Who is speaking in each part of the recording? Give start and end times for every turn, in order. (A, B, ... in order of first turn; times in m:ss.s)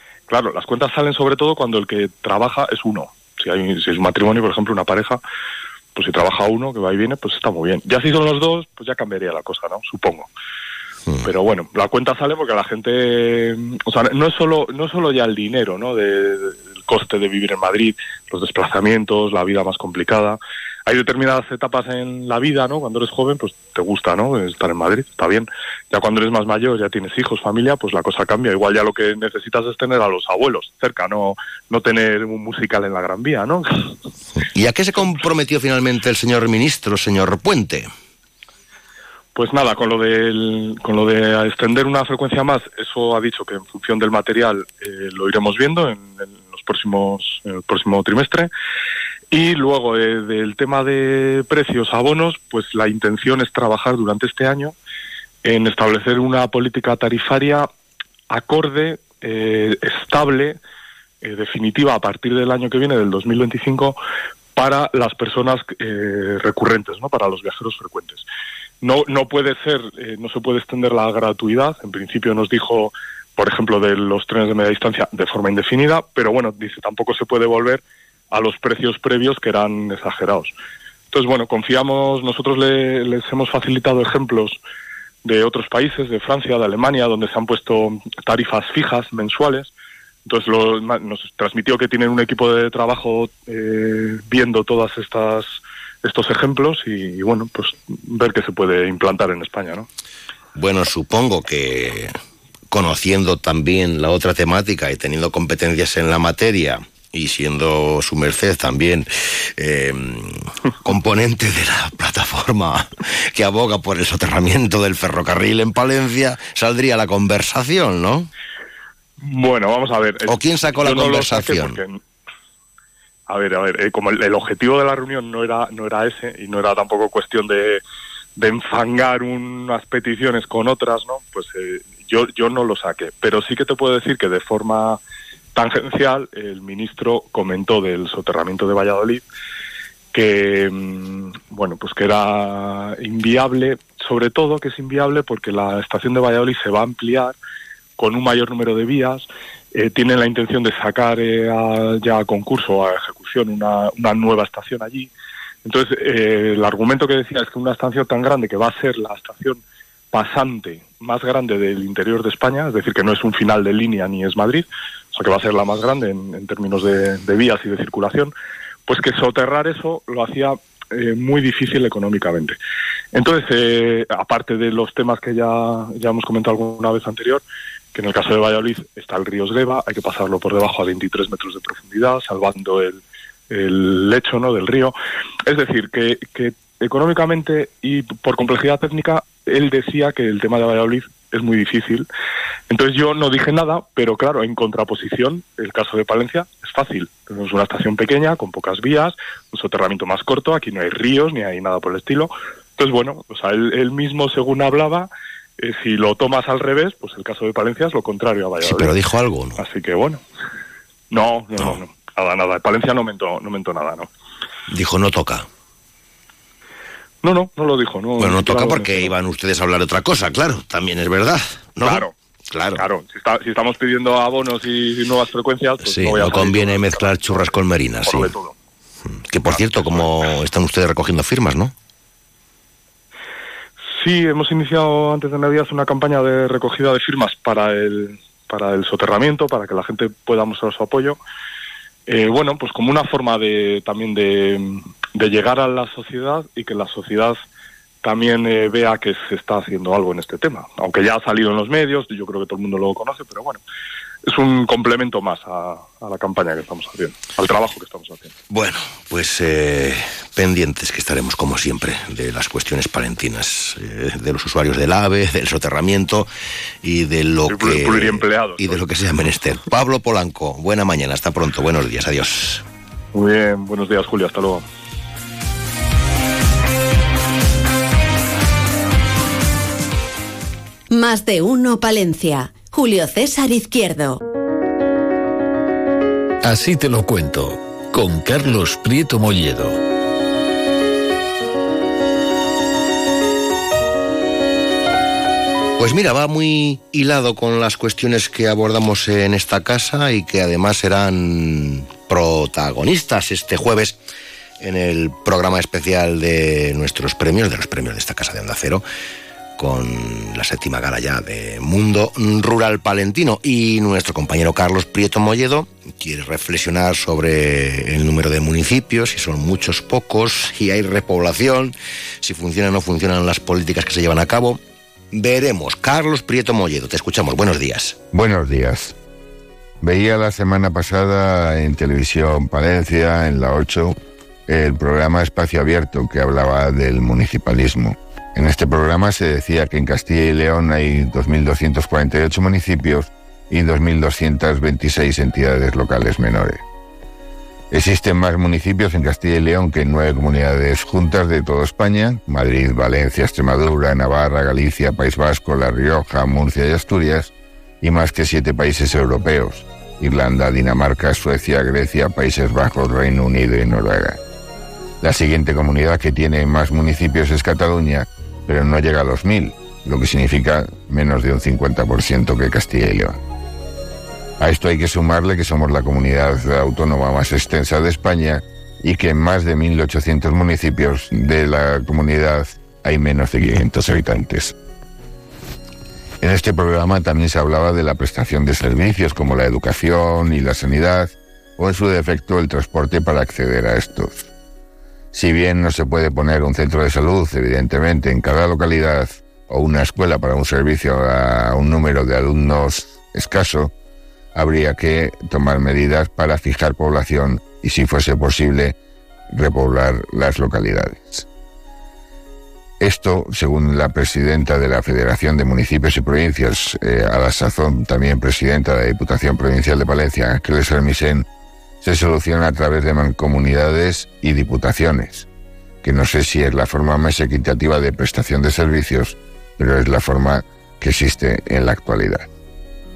0:00.3-0:05.2 A
0:06.0-0:10.3 A
0:11.2-0:33.9 A
0:34.5-0:37.9 B
0:39.4-0:48.5 A
0:49.3-0:54.7 A
0:55.4-0:57.7 A
0:58.3-1:00.6 A
1:01.2-1:04.0 A
1:04.6-1:08.2 A
1:08.8-1:20.5 A
1:21.1-1:24.6 A
1:25.2-1:29.7 A
1:30.3-1:39.9 A
1:40.6-1:42.1 B
1:42.7-1:58.3 B
1:59.2-2:02.0 A
2:00.3-2:01.8 B
2:03.3-2:07.8 A
2:08.4-2:15.0 A
2:15.6-2:19.2 A
2:20.1-2:27.4 A
2:28.0-2:35.1 A
2:35.6-2:39.6 A
2:40.1-2:48.3 A
2:48.9-2:52.6 A
2:53.1-2:57.4 A
2:58.0-3:05.0 A
3:05.5-3:12.1 A
3:12.7-3:28.9 A
3:28.6-3:29.6 B
3:29.6-3:30.2 A
3:31.1-3:34.1 A
3:34.7-3:35.5 B
3:37.2-3:39.1 A
3:38.2-3:42.8 B
3:41.8-3:42.1 A
3:42.8-3:48.6 A
3:45.8-3:48.3 B
3:49.1-3:51.7 B
3:49.5-3:50.2 A
3:54.0-4:01.2 A
4:02.1-4:07.4 A
4:08.0-4:13.6 A
4:14.3-4:18.3 A
4:18.5-4:26.3 B
4:26.8-4:32.6 B
4:27.5-4:28.8 A
4:33.1-4:34.6 A
4:40.9-4:44.2 C
4:46.4-4:49.8 D
4:55.8-5:04.0 B
5:04.6-5:08.8 B
5:09.6-5:24.6 B
5:25.1-5:28.0 B
5:28.1-5:29.0 E
5:29.8-5:34.0 E
5:34.5-5:46.6 E
5:47.7-5:57.3 E
5:57.8-6:04.2 E
6:05.0-6:13.2 E
6:14.4-6:24.5 E
6:26.2-6:34.3 E
6:35.1-6:43.7 E
6:44.4-6:48.8 E
6:49.3-6:51.3 E
6:52.8-7:01.2 E
7:01.8-7:05.3 E
7:05.8-7:12.3 E